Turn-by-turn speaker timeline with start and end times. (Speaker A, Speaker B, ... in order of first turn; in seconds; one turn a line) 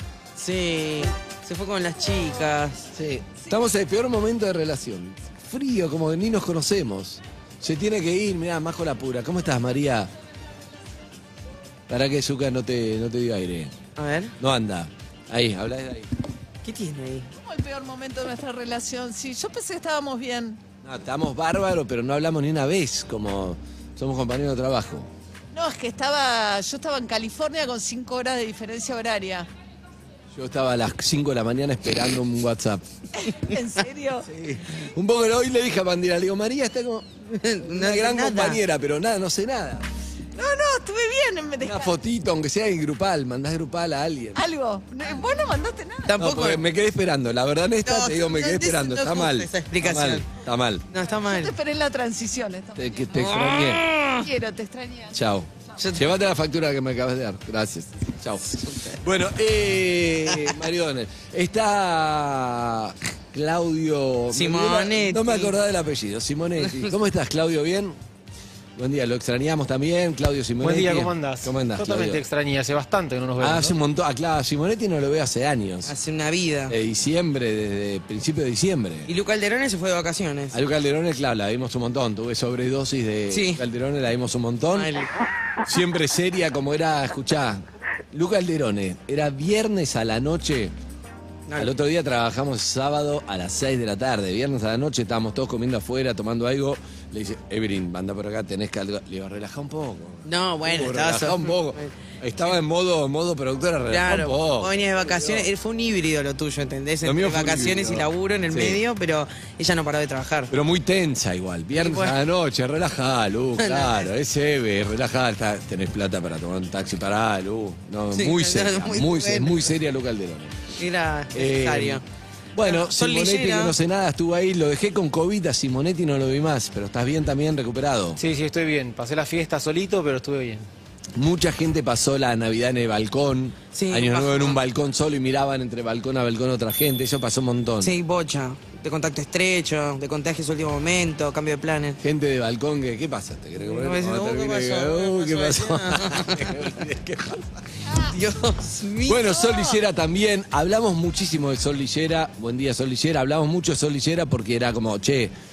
Speaker A: 0.4-2.9
Speaker B: 2.9-10.1
Speaker B: 11.9-13.7
Speaker A: 14.0-14.3
Speaker B: 14.4-16.1
Speaker A: 16.6-17.3
Speaker C: 17.4-20.6
Speaker B: 20.8-25.1
Speaker C: 25.5-29.5
Speaker B: 30.3-32.8
Speaker C: 33.1-34.3
Speaker B: 34.2-37.1
Speaker A: 37.3-38.6
Speaker B: 37.6-39.9
Speaker C: 40.4-41.9
Speaker B: 41.6-44.5
Speaker C: 44.3-46.2
Speaker A: 46.0-46.6
Speaker B: 46.1-50.9
Speaker A: 47.8-50.2
Speaker A: 50.9-51.5
Speaker C: 51.1-55.2
Speaker B: 52.8-53.9
Speaker A: 53.2-54.2
Speaker B: 55.1-68.0
Speaker A: 55.8-56.1
Speaker A: 58.5-59.0
Speaker A: 64.3-65.5
Speaker A: 66.6-66.9
Speaker B: 68.8-72.2
Speaker D: 70.6-73.8
Speaker B: 73.4-75.9
Speaker A: 75.8-76.8
Speaker B: 76.7-79.1
Speaker A: 79.0-80.6
Speaker B: 80.5-84.9
Speaker A: 83.3-83.6
Speaker A: 84.7-85.1
Speaker B: 85.6-90.7
Speaker A: 91.5-91.7
Speaker B: 91.6-105.5
Speaker A: 100.2-101.9
Speaker A: 103.9-110.5
Speaker B: 107.0-108.8
Speaker B: 110.5-120.7
Speaker A: 111.7-112.2
Speaker A: 113.6-114.1
Speaker A: 118.1-119.7
Speaker A: 120.8-122.0
Speaker B: 121.3-122.0
Speaker B: 122.5-128.2
Speaker A: 122.6-123.7
Speaker D: 128.2-130.7
Speaker B: 131.1-137.9
Speaker A: 133.7-134.6
Speaker A: 137.8-142.0
Speaker B: 142.0-147.6
Speaker A: 143.7-146.6
Speaker A: 147.9-149.8
Speaker B: 149.1-155.3